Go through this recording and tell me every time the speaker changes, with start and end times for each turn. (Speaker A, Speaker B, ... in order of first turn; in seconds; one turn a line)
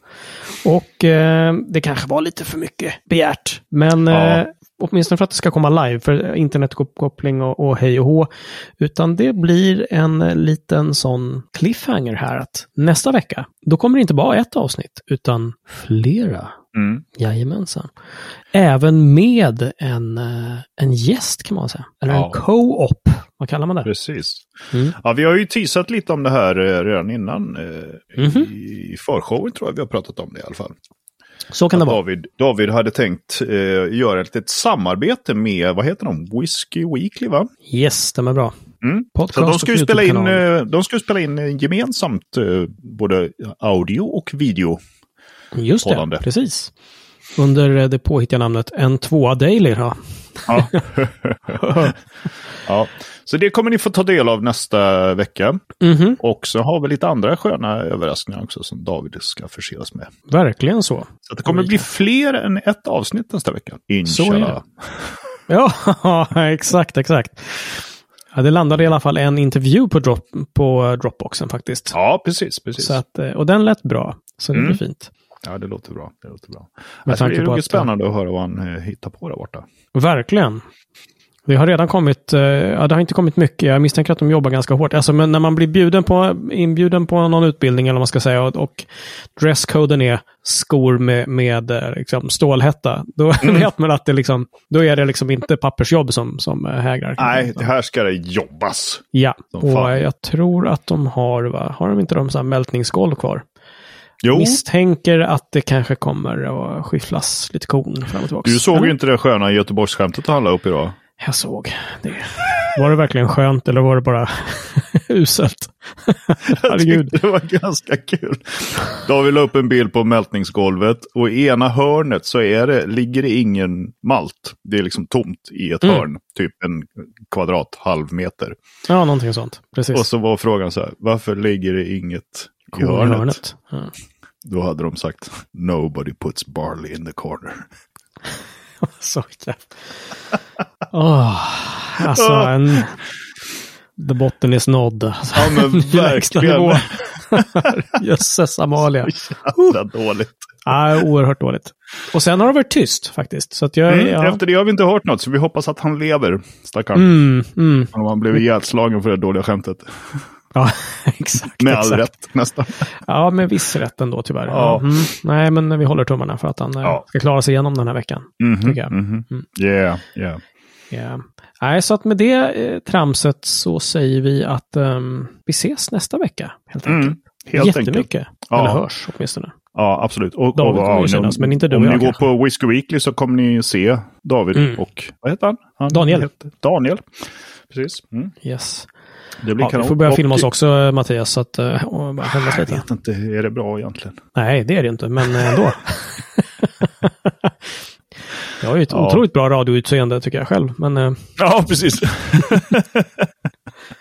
Speaker A: 0.5-8.3
Speaker B: 4.1-4.4
Speaker A: 8.8-16.6
Speaker B: 16.7-17.0
Speaker A: 17.1-17.9
Speaker A: 18.5-23.9
Speaker B: 22.1-22.4
Speaker B: 23.8-24.4
Speaker B: 25.0-30.7
Speaker A: 28.2-28.5
Speaker A: 31.5-32.0
Speaker B: 31.7-37.5
Speaker A: 37.7-38.5
Speaker B: 38.8-44.8
Speaker A: 39.1-40.4
Speaker A: 45.5-46.7
Speaker B: 45.8-46.2
Speaker A: 47.4-50.8
Speaker B: 50.5-51.9
Speaker A: 51.6-51.9
Speaker B: 52.6-55.6
Speaker A: 55.8-56.2
Speaker B: 56.2-60.1
Speaker A: 60.3-61.9
Speaker B: 61.3-64.7
Speaker A: 64.0-64.6
Speaker A: 65.5-72.0
Speaker B: 71.9-73.0
Speaker A: 72.8-75.1
Speaker B: 74.5-74.8
Speaker B: 75.4-79.6
Speaker A: 77.1-77.9
Speaker A: 79.9-80.6
Speaker A: 81.5-97.7
Speaker B: 93.4-93.7
Speaker B: 97.2-100.0
Speaker A: 99.1-103.4
Speaker B: 104.2-104.6
Speaker A: 104.3-108.9
Speaker B: 108.4-111.0
Speaker A: 111.2-117.1
Speaker B: 116.5-128.5
Speaker A: 128.9-130.0
Speaker B: 129.9-133.4
Speaker A: 132.7-133.9
Speaker B: 134.4-137.6
Speaker A: 138.8-139.7
Speaker A: 140.9-143.0
Speaker B: 142.0-142.8
Speaker A: 144.0-149.8
Speaker B: 145.3-147.7
Speaker B: 149.0-150.5
Speaker A: 150.6-154.4
Speaker B: 153.9-157.2
Speaker A: 156.9-157.9
Speaker B: 157.9-159.9
Speaker A: 160.5-162.0
Speaker B: 161.6-162.8
Speaker A: 163.0-169.4
Speaker B: 164.5-164.9
Speaker B: 168.4-170.4
Speaker A: 170.9-179.5
Speaker B: 176.8-178.8
Speaker B: 179.7-187.0
Speaker A: 180.5-182.2
Speaker A: 184.5-184.8
Speaker A: 185.9-186.3
Speaker B: 187.7-188.3
Speaker A: 188.4-188.9
Speaker B: 189.4-190.5
Speaker A: 189.6-192.8
Speaker B: 192.4-194.2
Speaker A: 194.3-197.5
Speaker A: 198.6-201.2
Speaker B: 198.9-199.2
Speaker B: 201.4-203.2